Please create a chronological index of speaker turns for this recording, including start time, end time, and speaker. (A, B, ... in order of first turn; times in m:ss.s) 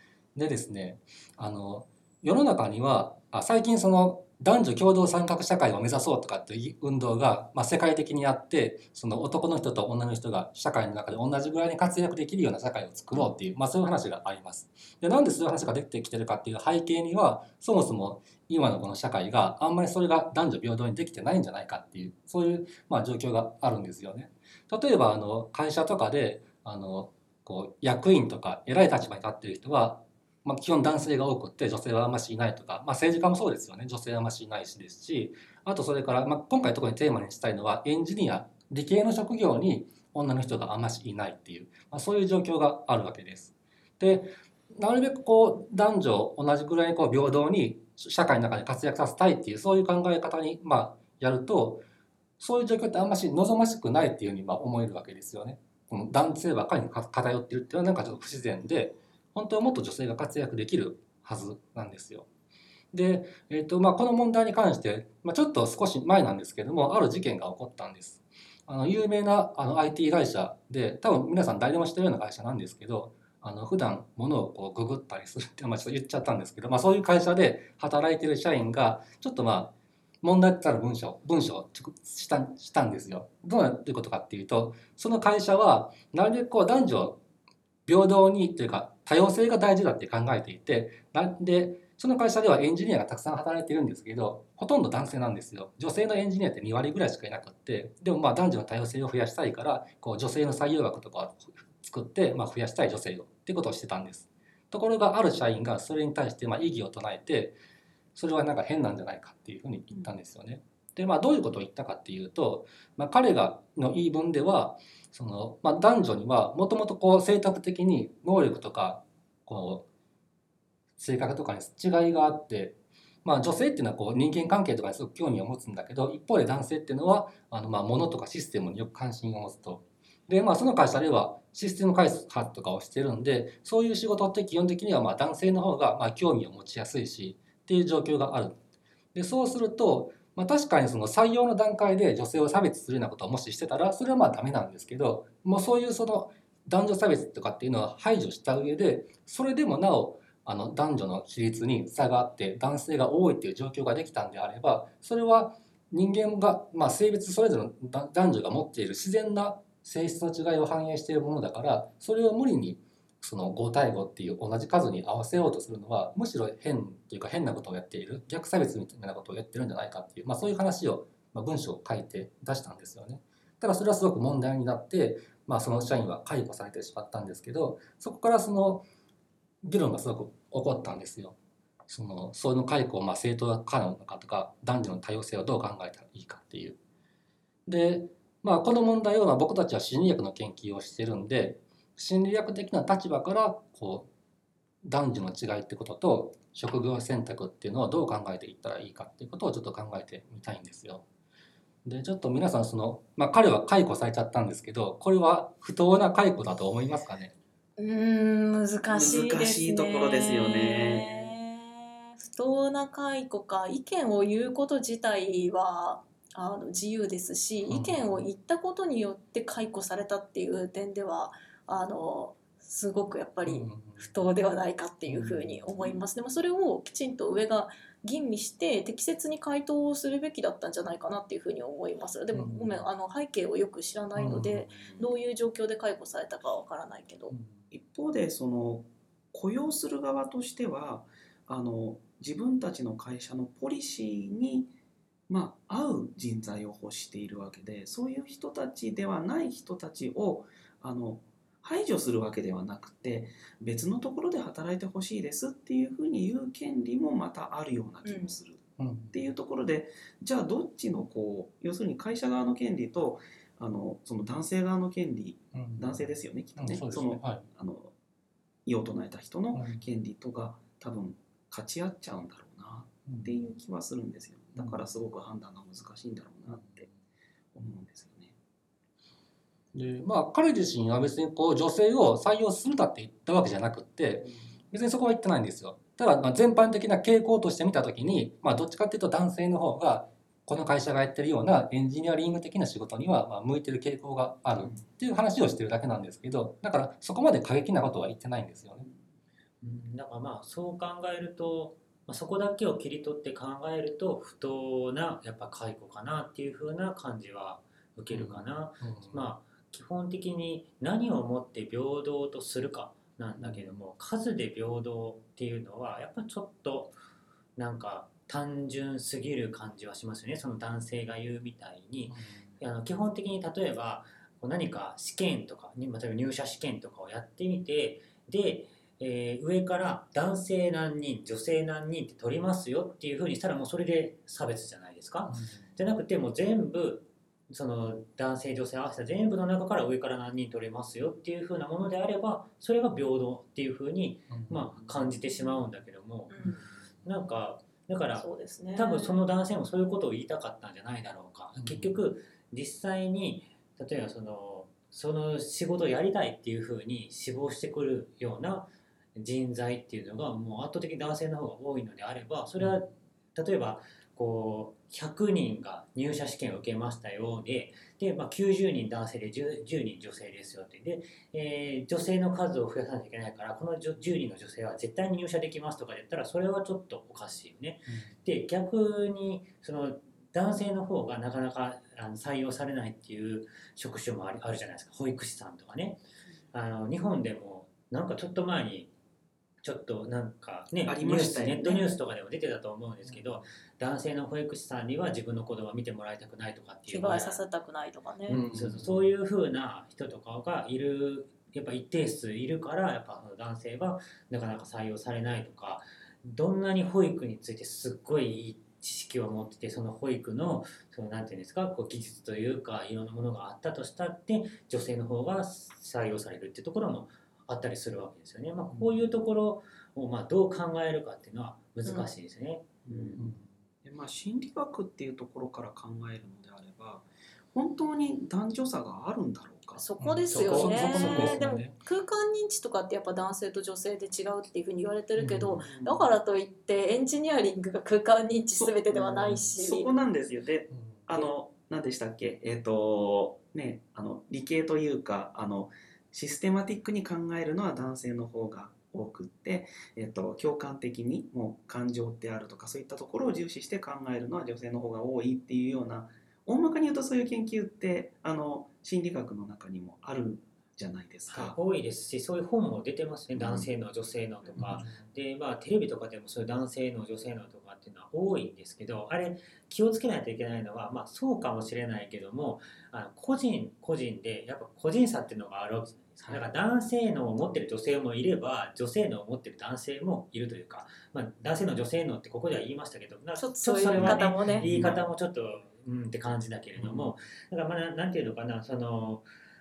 0:00.4-0:51.9 A
0:52.4-1:02.3 A
1:02.9-1:27.2 A
1:27.9-1:47.6 A
1:48.2-1:59.9 A
2:01.0-2:18.6 A
2:19.2-2:58.8 A
2:59.6-3:01.4 A
3:01.9-3:06.8 A
3:07.7-3:14.1 A
3:14.8-3:21.0 A
3:21.8-3:27.3 A
3:27.8-3:57.3 B
3:28.9-3:31.3 C
3:37.7-3:38.3 A
3:43.4-3:44.2 A
3:45.1-3:45.7 A
3:52.3-3:52.9 A
3:54.2-3:54.8 A
3:57.7-4:04.7 C
4:05.3-4:27.9 C
4:18.0-4:18.4 B
4:18.8-4:19.2 A
4:25.5-4:26.0 A
4:26.6-4:27.4 A
4:28.7-4:36.9 C
4:29.5-4:29.8 A
4:33.1-4:33.4 A
4:34.6-4:34.9 A
4:37.6-4:38.4 C
4:39.7-4:58.9 A
4:44.2-4:44.5 C
4:59.6-5:17.0 D
5:08.1-5:09.3 A
5:13.4-5:13.8 A
5:17.6-5:46.5 D
5:22.1-5:22.6 A
5:35.3-5:35.7 A
5:44.3-5:44.8 A
5:46.3-5:46.6 B
5:47.0-6:26.0 D
5:48.1-5:49.2 B
5:51.6-5:52.0 A
6:02.6-6:02.8 A
6:26.5-6:28.9 D
6:29.6-6:37.4 D
6:30.8-6:31.9 C
6:33.0-6:33.4 A
6:36.9-6:38.4 B
6:38.3-7:03.2 D
6:38.3-6:39.1 A
6:58.7-6:59.0 A
7:01.8-7:02.1 B
7:02.9-7:03.2 C
7:03.2-7:03.5 A
7:03.8-7:09.8 C
7:09.7-7:19.9 B
7:10.0-7:11.8 A
7:10.4-7:11.4 C
7:15.2-7:15.6 A
7:15.5-7:16.2 C
7:18.6-7:41.6 C
7:20.7-7:21.3 A
7:41.3-8:09.3 D
7:43.4-7:43.7 C
7:44.6-7:45.0 A
8:03.4-8:04.7 B
8:03.9-8:05.0 C
8:06.8-8:07.1 C